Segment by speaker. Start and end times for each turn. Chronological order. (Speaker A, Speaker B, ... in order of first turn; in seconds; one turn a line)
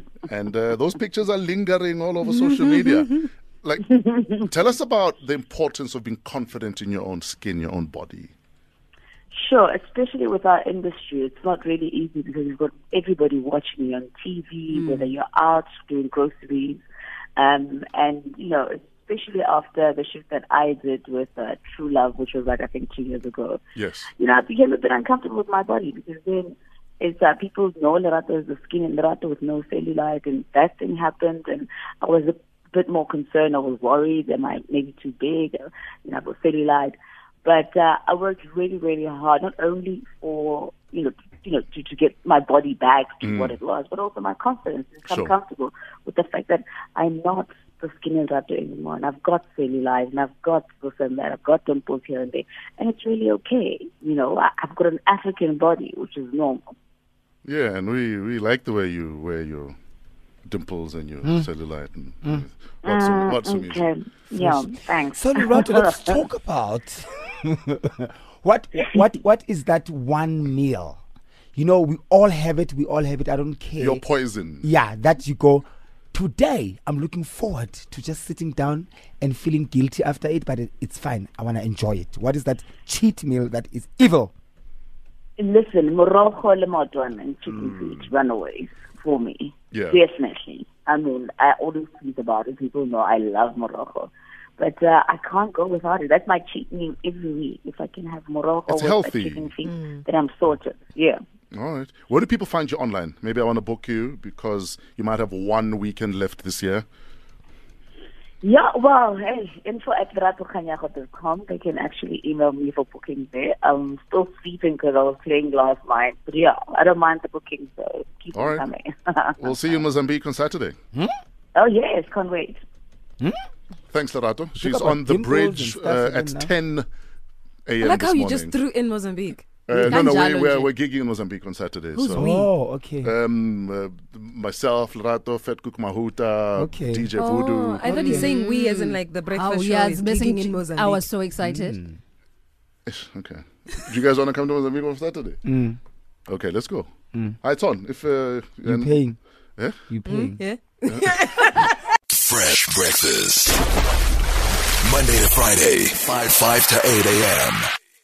Speaker A: 0.3-8.3
Speaker B: 9.3-16.8
Speaker B: 17.4-23.6
Speaker A: 23.8-24.1
Speaker B: 24.2-56.7
Speaker A: 43.2-43.5
Speaker A: 45.1-45.3
Speaker A: 57.4-59.8
Speaker A: 60.5-63.9
Speaker C: 61.2-61.5
Speaker B: 62.8-66.2
Speaker C: 64.3-71.0
Speaker C: 71.5-74.0
Speaker A: 73.8-74.7
Speaker C: 74.6-84.3
Speaker B: 85.4-101.2
Speaker A: 89.7-90.0
Speaker A: 98.7-99.5
Speaker D: 99.6-100.0
Speaker A: 101.5-106.8
Speaker B: 108.4-119.7
Speaker A: 118.3-118.6
Speaker A: 119.4-120.8
Speaker B: 121.5-122.6
Speaker A: 123.9-126.9
Speaker C: 124.6-126.5
Speaker A: 127.7-128.6
Speaker D: 127.8-129.6
Speaker A: 129.7-132.3
Speaker E: 129.7-130.7
Speaker D: 131.9-132.3
Speaker C: 132.1-133.1
Speaker A: 133.0-138.1
Speaker C: 136.6-137.1
Speaker D: 137.1-141.1
Speaker C: 137.9-138.3
Speaker E: 137.9-141.8
Speaker C: 141.4-141.9
Speaker A: 142.8-145.4
Speaker C: 145.4-145.8
Speaker A: 146.3-149.0
Speaker C: 148.6-149.2
Speaker A: 149.6-149.8
Speaker C: 149.9-150.4
Speaker D: 150.1-151.8
Speaker A: 150.8-151.2
Speaker F: 152.1-153.6
Speaker F: 154.8-157.7